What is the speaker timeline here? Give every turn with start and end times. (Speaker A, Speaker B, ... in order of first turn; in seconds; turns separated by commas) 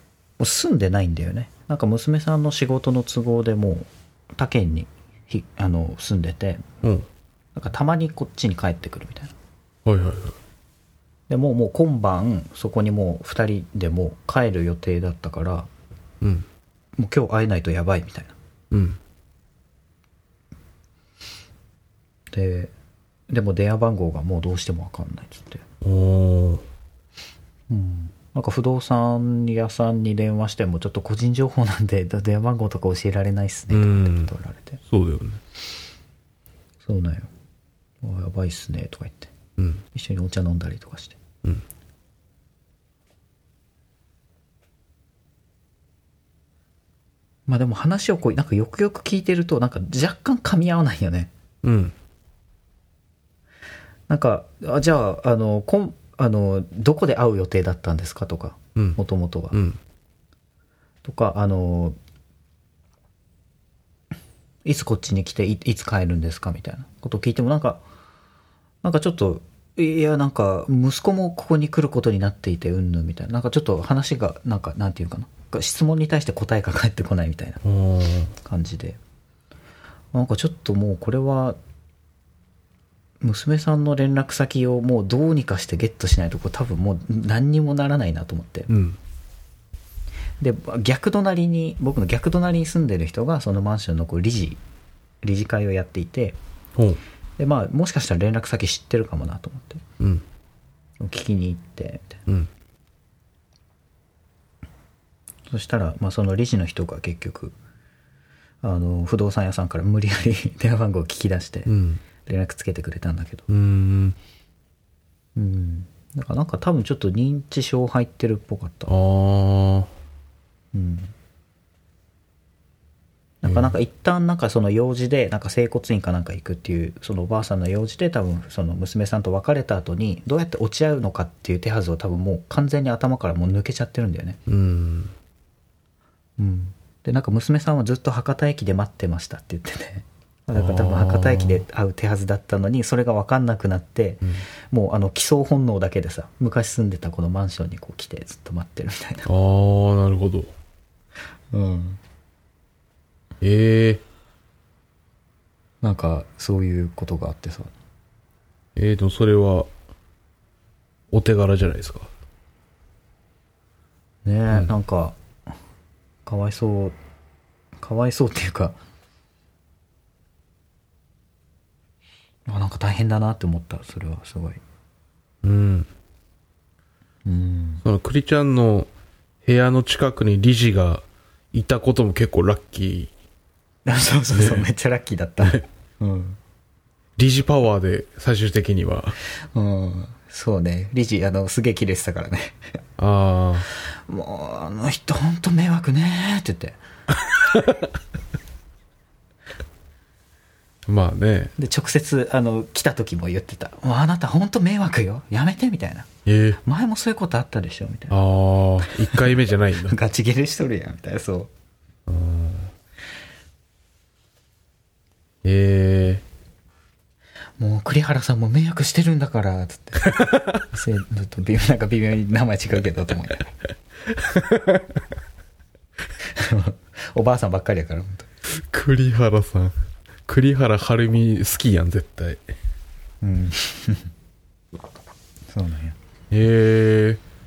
Speaker A: 0.4-6.6, Speaker A: 7.5-9.3, Speaker B: 9.9-10.4, Speaker A: 11.3-15.7, Speaker A: 17.0-18.4, Speaker B: 18.7-19.0, Speaker A: 22.3-22.7, Speaker A: 23.3-25.6, Speaker B: 25.8-26.6, Speaker A: 27.7-34.8, Speaker B: 33.7-34.3, Speaker B: 34.9-35.4, Speaker A: 36.8-37.3, Speaker A: 38.0-39.3, Speaker B: 39.6-39.8, Speaker A: 39.9-41.2, Speaker A: 47.5-51.3, Speaker B: 51.6-51.9, Speaker A: 54.1-59.5, Speaker B: 59.5-59.8, Speaker A: 61.0-62.0, Speaker A: 64.7-67.8, Speaker A: 68.8-77.6, Speaker B: 77.6-78.3, Speaker A: 78.4-79.0, Speaker A: 80.1-81.6, Speaker A: 83.2-88.7, Speaker B: 88.7-89.0, Speaker A: 90.4-94.6, Speaker A: 95.2-96.4, Speaker B: 96.8-97.0, Speaker A: 97.4-99.8, Speaker A: 101.0-102.2, Speaker A: 105.5-107.5, Speaker A: 108.6-111.7, Speaker B: 111.7-112.0, Speaker A: 112.2-113.5, Speaker B: 113.5-114.2, Speaker A: 115.4-118.9, Speaker B: 118.9-119.9, Speaker A: 120.7-121.1, Speaker A: 123.4-134.4, Speaker B: 123.5-123.8, Speaker B: 134.5-135.1, Speaker A: 136.4-149.3, Speaker B: 140.6-141.6, Speaker B: 149.3-150.5, Speaker A: 151.5-152.0, Speaker B: 153.4-154.0, Speaker A: 155.8-157.7, Speaker B: 158.8-159.7, Speaker B: 161.1-162.1, Speaker A: 164.2-165.2, Speaker A: 166.3-167.0, Speaker A: 167.8-168.8, Speaker A: 172.5-174.6, Speaker B: 175.4-175.9, Speaker A: 177.2-177.8, Speaker B: 177.8-178.9, Speaker B: 179.5-183.1, Speaker A: 183.8-186.4, Speaker B: 184.3-184.7, Speaker B: 187.2-189.2, Speaker A: 189.5-192.6, Speaker B: 193.0-193.7, Speaker A: 193.8-196.8, Speaker B: 197.3-197.9, Speaker B: 200.9-201.5, Speaker A: 201.6-206.1, Speaker B: 206.3-206.6, Speaker A: 206.6-208.2, Speaker B: 208.1-210.0, Speaker A: 208.8-209.3, Speaker A: 209.8-211.5, Speaker B: 212.1-212.7, Speaker B: 215.4-216.2, Speaker A: 217.6-223.5, Speaker B: 220.0-220.6, Speaker B: 224.1-225.0, Speaker A: 226.3-228.3, Speaker B: 228.5-229.7, Speaker B: 230.3-232.4, Speaker A: 233.2-234.1, Speaker A: 235.5-236.0, Speaker B: 236.3-237.2